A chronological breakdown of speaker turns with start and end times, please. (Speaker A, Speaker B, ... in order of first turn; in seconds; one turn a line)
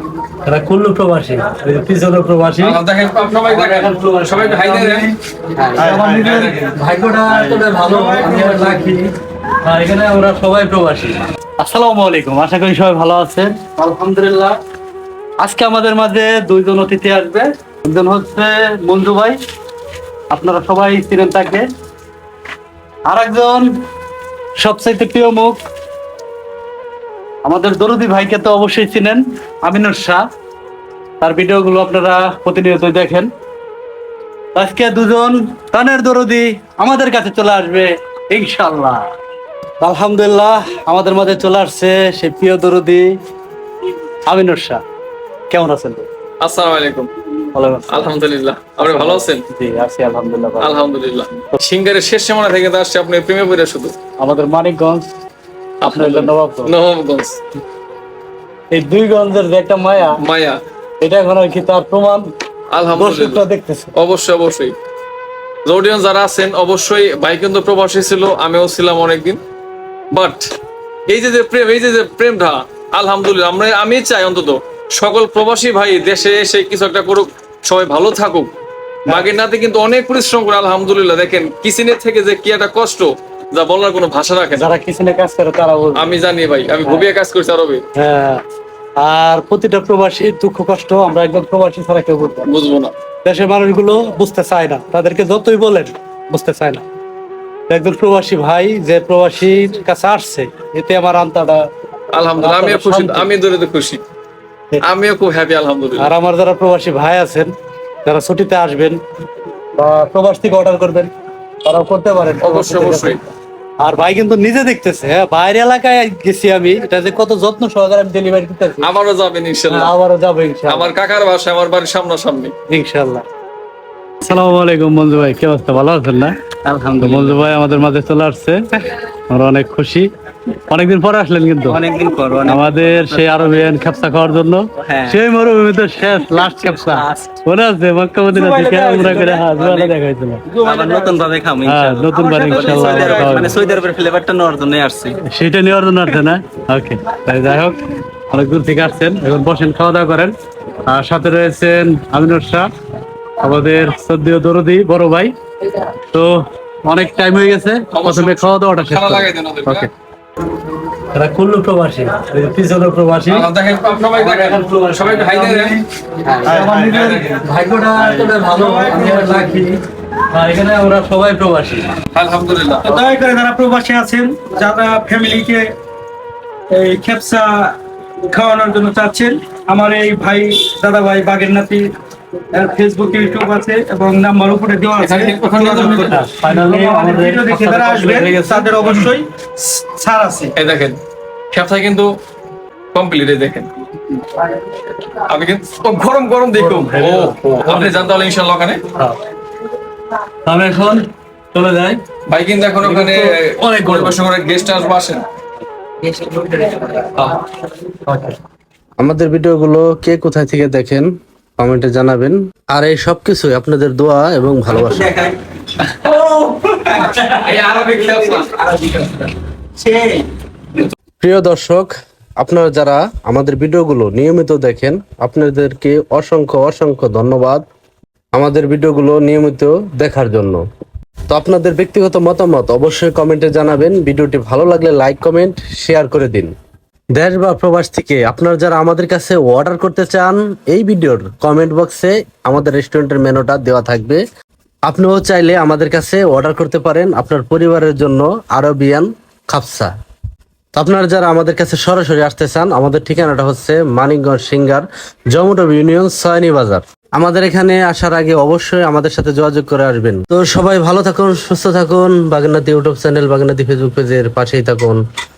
Speaker A: 0.5-2.8
Speaker B: 2.6-5.1
Speaker A: 3.4-4.8
Speaker C: 4.7-5.1
Speaker A: 5.6-9.1
Speaker C: 5.8-6.6
Speaker B: 6.2-6.8
Speaker C: 7.3-9.0
Speaker A: 9.6-14.6
Speaker A: 15.4-19.4
Speaker A: 20.3-21.7
Speaker A: 23.1-23.7
Speaker A: 24.6-25.6
Speaker A: 27.4-30.2
Speaker A: 31.2-33.3
Speaker A: 34.5-39.1
Speaker A: 39.8-43.1
Speaker A: 44.3-44.8
Speaker A: 45.5-46.1
Speaker B: 46.4-47.1
Speaker A: 47.5-48.1
Speaker B: 47.9-49.4
Speaker A: 48.8-50.8
Speaker B: 50.6-53.9
Speaker A: 54.2-55.1
Speaker B: 55.8-57.4
Speaker A: 55.9-56.7
Speaker A: 58.7-60.2
Speaker B: 60.2-60.6
Speaker A: 61.0-62.3
Speaker B: 62.7-63.4
Speaker A: 63.0-63.9
Speaker B: 64.0-64.8
Speaker B: 65.7-69.4
Speaker B: 70.1-70.5
Speaker B: 71.1-78.5
Speaker B: 79.1-84.7
Speaker A: 84.6-86.2
Speaker B: 86.0-87.8
Speaker A: 88.0-88.4
Speaker A: 89.0-92.5
Speaker B: 92.5-92.9
Speaker A: 93.2-96.8
Speaker A: 97.7-101.6
Speaker B: 102.1-104.0
Speaker A: 102.4-103.3
Speaker B: 104.8-106.1
Speaker A: 106.0-107.5
Speaker A: 108.0-109.0
Speaker A: 109.8-111.1
Speaker A: 111.6-113.2
Speaker B: 112.4-113.2
Speaker A: 113.8-118.9
Speaker B: 118.8-119.9
Speaker A: 119.7-120.9
Speaker B: 120.7-122.5
Speaker A: 122.7-123.2
Speaker A: 124.2-126.4
Speaker D: 126.7-127.6
Speaker A: 127.0-131.8
Speaker D: 131.7-133.8
Speaker A: 132.4-140.4
Speaker D: 134.8-135.2
Speaker D: 136.2-137.4
Speaker C: 138.3-139.5
Speaker D: 139.0-139.9
Speaker C: 140.5-141.2
Speaker D: 140.6-145.2
Speaker A: 141.6-143.6
Speaker C: 142.1-143.7
Speaker A: 145.2-147.8
Speaker A: 148.3-152.7
Speaker A: 153.4-155.3
Speaker A: 156.1-159.9
Speaker B: 157.9-159.9
Speaker A: 161.1-163.5
Speaker B: 163.3-165.8
Speaker A: 164.2-165.8
Speaker A: 166.3-169.7
Speaker C: 166.5-167.2
Speaker B: 166.8-167.4
Speaker C: 168.0-169.7
Speaker A: 170.3-171.9
Speaker B: 172.1-172.9
Speaker C: 172.8-175.7
Speaker C: 176.7-177.7
Speaker C: 178.3-181.8
Speaker C: 182.5-190.5
Speaker B: 185.0-186.2
Speaker A: 185.8-188.8
Speaker B: 190.6-191.0
Speaker B: 191.5-192.1
Speaker B: 192.9-193.7
Speaker B: 195.1-198.8
Speaker A: 196.6-198.1
Speaker A: 200.4-202.0
Speaker B: 202.3-205.2
Speaker A: 202.8-204.2
Speaker A: 206.2-206.6
Speaker B: 207.0-207.4
Speaker A: 208.1-208.3
Speaker E: 209.0-215.2
Speaker B: 215.8-219.1
Speaker C: 219.8-220.3
Speaker E: 221.2-227.6
Speaker E: 228.3-230.6
Speaker E: 231.3-236.5
Speaker E: 237.2-244.2
Speaker E: 244.9-249.9
Speaker E: 250.7-265.0